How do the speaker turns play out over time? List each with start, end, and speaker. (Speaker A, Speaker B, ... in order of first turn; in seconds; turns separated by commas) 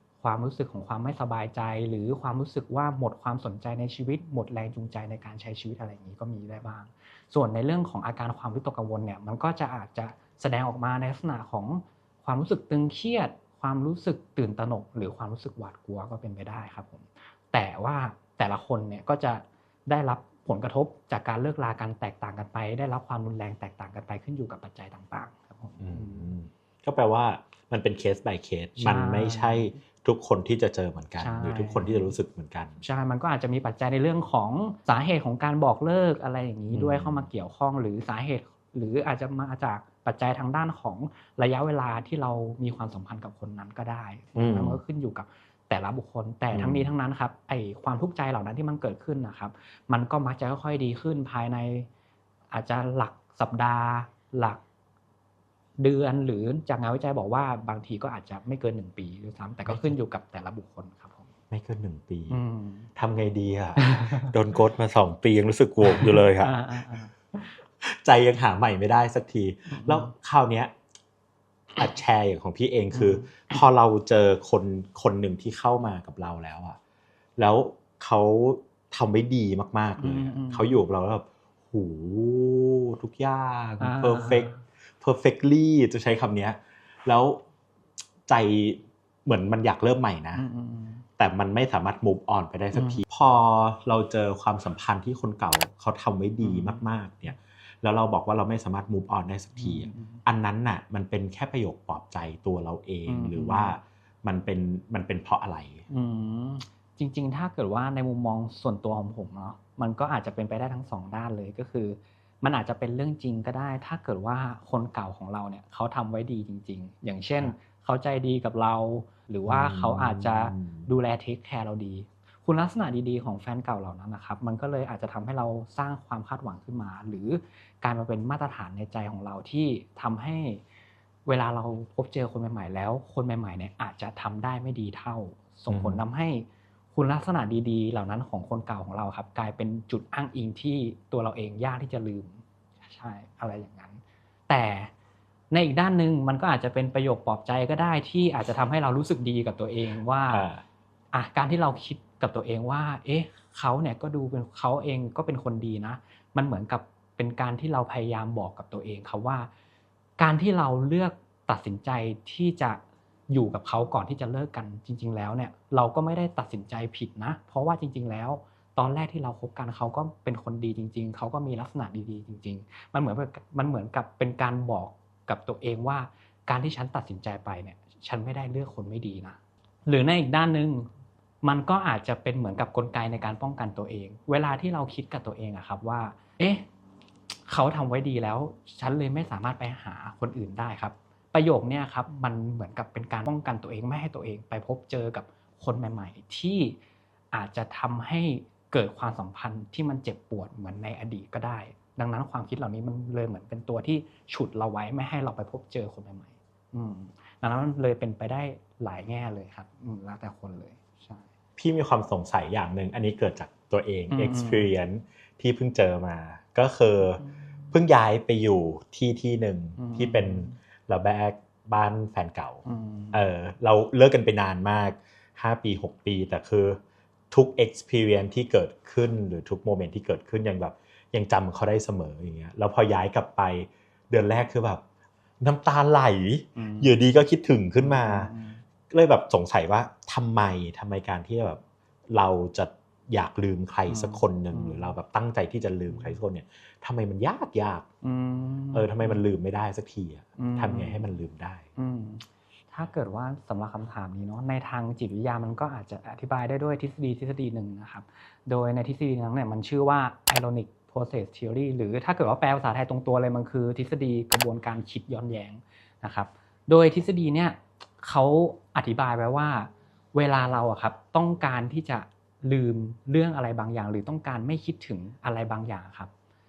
Speaker A: 0.2-26.3, Speaker B: 25.8-32.8, Speaker A: 28.8-29.7, Speaker A: 31.2-32.1, Speaker A: 32.8-51.9, Speaker B: 36.7-37.3, Speaker B: 44.4-44.8, Speaker B: 46.5-46.9, Speaker A: 52.5-54.6, Speaker A: 55.8-61.2, Speaker B: 59.6-60.0, Speaker B: 61.5-62.4, Speaker A: 62.3-62.9, Speaker B: 63.0-66.6, Speaker A: 63.8-64.3, Speaker A: 65.8-67.6, Speaker B: 67.8-70.7, Speaker A: 69.7-70.1, Speaker B: 71.8-76.8, Speaker A: 72.9-73.6, Speaker B: 77.4-84.5, Speaker A: 80.0-80.7, Speaker A: 83.8-84.6, Speaker B: 85.0-87.4, Speaker B: 88.3-90.4, Speaker A: 90.3-91.0, Speaker B: 91.2-105.8, Speaker A: 92.7-93.0, Speaker A: 96.4-96.8, Speaker A: 99.5-100.2, Speaker A: 103.1-103.8, Speaker A: 105.9-130.6, Speaker B: 119.5-120.9, Speaker A: 131.2-144.9, Speaker B: 135.7-136.0, Speaker A: 145.5-150.4, Speaker B: 150.3-150.6, Speaker A: 151.1-159.5, Speaker A: 160.2-180.9, Speaker A: 181.4-186.7, Speaker A: 187.5-196.8, Speaker A: 197.3-211.2, Speaker B: 211.6-222.6, Speaker A: 214.1-214.7, Speaker A: 219.8-220.6, Speaker A: 222.6-223.2, Speaker B: 223.1-226.8, Speaker B: 227.3-234.8, Speaker B: 235.4-238.3, Speaker A: 236.6-236.9, Speaker A: 237.8-238.6, Speaker B: 238.9-247.8, Speaker A: 243.9-244.9, Speaker A: 245.9-246.2, Speaker A: 248.0-249.2, Speaker B: 248.7-251.6, Speaker A: 250.4-251.1, Speaker A: 251.8-276.1